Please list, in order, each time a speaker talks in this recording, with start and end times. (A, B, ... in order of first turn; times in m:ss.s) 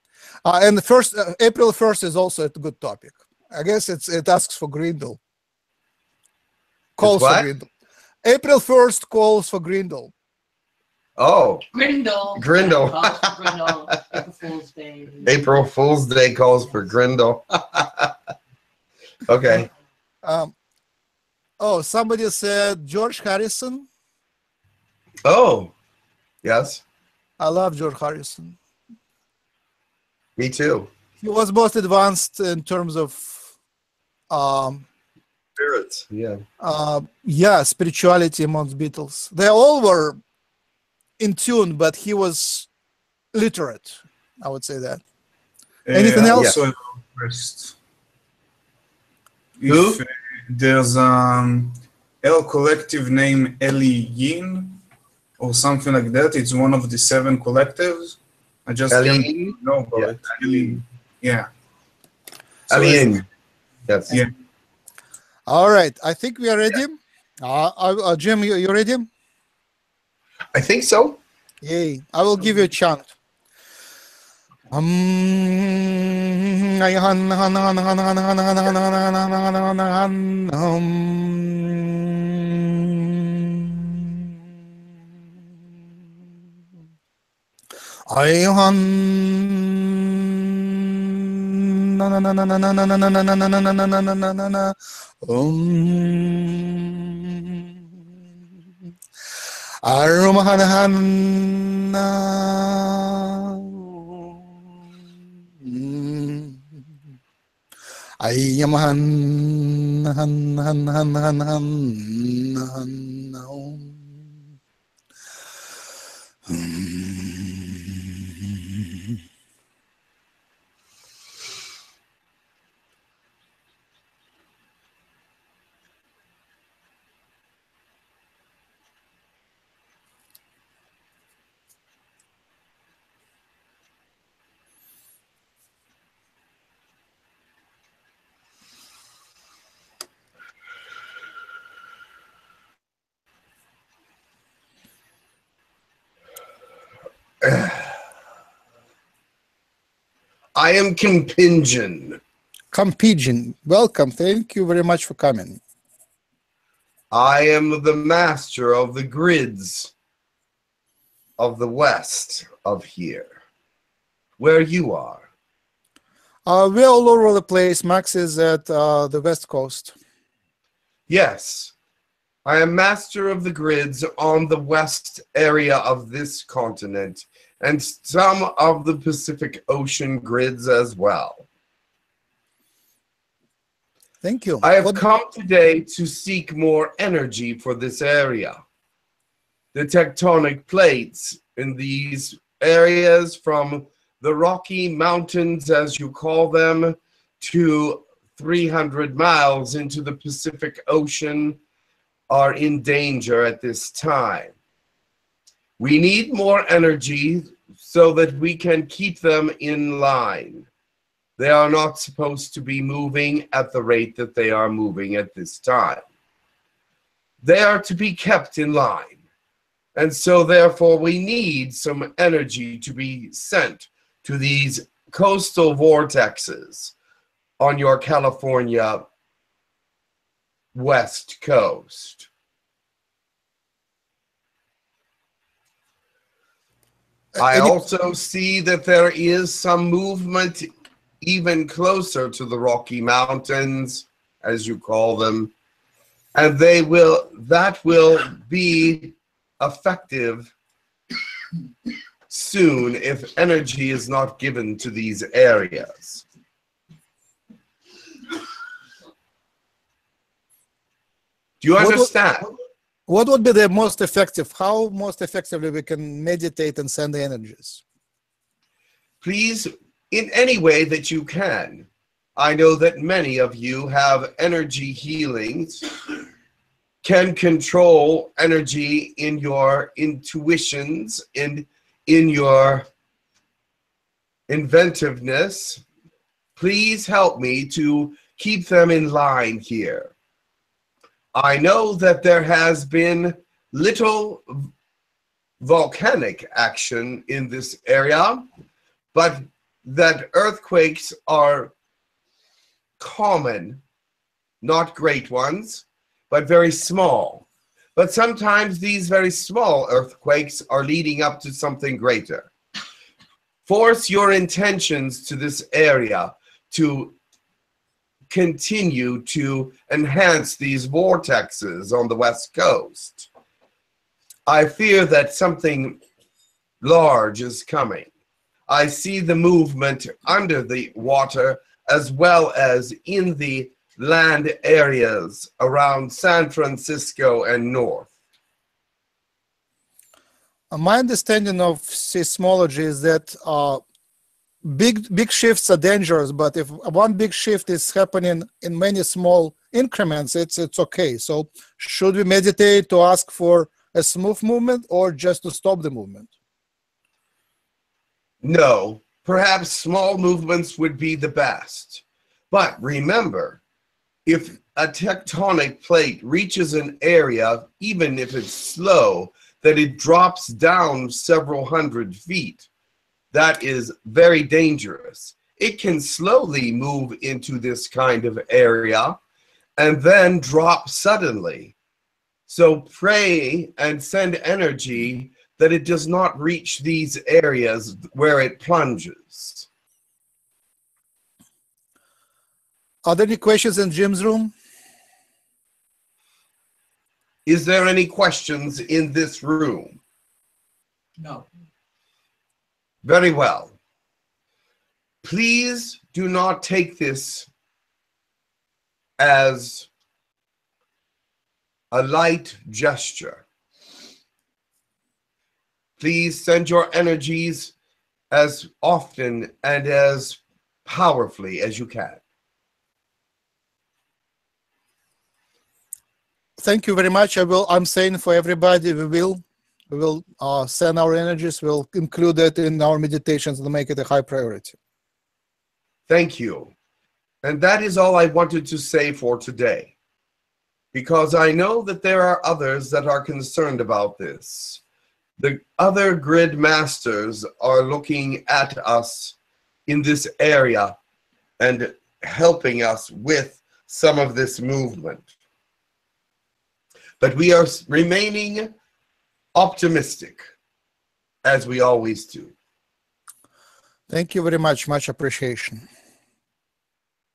0:00.4-0:05.2 A
0:07.0-0:07.7 A
0:07.0-0:07.5 B
0:08.2-0:10.1 A
0:11.2-0:11.6 B
0:11.7-0:15.3 C
0:12.4-0:14.2 B
0:15.2-0:18.1 B
0:19.3-0:19.7 B
0:20.2-0:20.5 A
0:21.6-0:23.9 A
0:25.2-0:25.7 B
0:26.4-0:26.8 B
0:27.4-0:28.6 A
0:30.4-0:30.9 B
0:31.2-0:33.5 A
0:34.3-0:34.9 A
0:35.6-0:36.4 B
0:36.6-0:40.2 A
0:41.2-0:42.7 A
0:43.3-0:45.0 A
0:45.9-0:47.8 D
0:45.9-0:46.5 A
0:46.3-0:46.6 B
0:49.6-0:54.8 D
0:49.7-0:50.0 B
0:55.4-1:01.5 D
0:58.9-1:00.8 B
1:02.7-1:03.1 D
1:02.7-1:03.2 B
1:03.9-1:04.2 B
1:05.5-1:09.1 A
1:10.5-1:11.2 B
1:11.6-1:13.1 A
1:14.7-1:22.6 A
1:28.1-1:30.3 A
1:32.0-1:37.6 A
1:39.8-1:43.4 A
1:45.6-1:46.6 A
1:48.2-1:54.2 A
1:56.5-1:58.9 A
2:27.4-2:27.9 B
2:30.6-2:32.2 B
2:32.7-2:35.6 A
2:37.1-2:39.9 B
2:41.4-2:43.3 B
2:44.4-2:45.2 B
2:46.5-2:50.0 A
2:51.1-2:51.7 B
2:52.4-3:01.5 B
3:04.2-3:05.0 A
3:04.6-3:08.6 B
3:09.7-3:21.6 B
3:22.3-3:24.5 B
3:25.8-3:30.7 B
3:31.4-3:36.0 B
3:37.4-3:39.2 B
3:40.0-3:46.9 B
3:47.6-3:49.1 B
3:50.7-3:52.3 B
3:57.4-3:57.8 A
3:57.4-4:00.7 B
4:01.2-4:05.5 B
4:06.4-4:10.5 B
4:12.3-4:16.2 B
4:21.6-4:22.5 B
4:21.8-4:22.1 A
4:23.1-4:27.8 A
4:29.2-4:35.9 B
4:37.0-4:42.9 B
4:44.5-4:45.8 B
4:46.6-4:50.1 B
4:51.3-4:54.7 B
4:55.6-4:58.5 B
4:59.1-5:01.7 B
5:03.0-5:03.8 B
5:04.6-5:12.5 B
5:13.7-5:17.2 B
5:18.3-5:23.3 B
5:24.5-5:26.0 B
5:26.8-5:28.1 B
5:28.7-5:38.1 B
5:40.7-5:43.8 A
5:44.6-5:56.3 A
5:58.4-6:03.6 B
6:04.3-6:12.7 B
6:13.3-6:19.2 B
6:19.8-6:21.7 B
6:22.5-6:29.7 B
6:33.1-6:34.5 A
6:37.5-6:40.0 B
6:43.0-6:43.8 B
6:45.2-6:47.5 B
6:49.2-6:49.9 B
6:51.9-6:53.4 B
6:56.0-6:57.7 B
6:58.3-7:02.2 B
7:06.6-7:14.8 A
7:16.1-7:16.7 B
7:17.4-7:19.9 B
7:20.9-7:24.8 B
7:25.4-7:29.4 B
7:29.9-7:31.0 B
7:31.6-7:35.3 B
7:37.2-7:38.7 B
7:39.6-7:40.4 B
7:41.4-7:42.6 B
7:44.1-7:45.8 A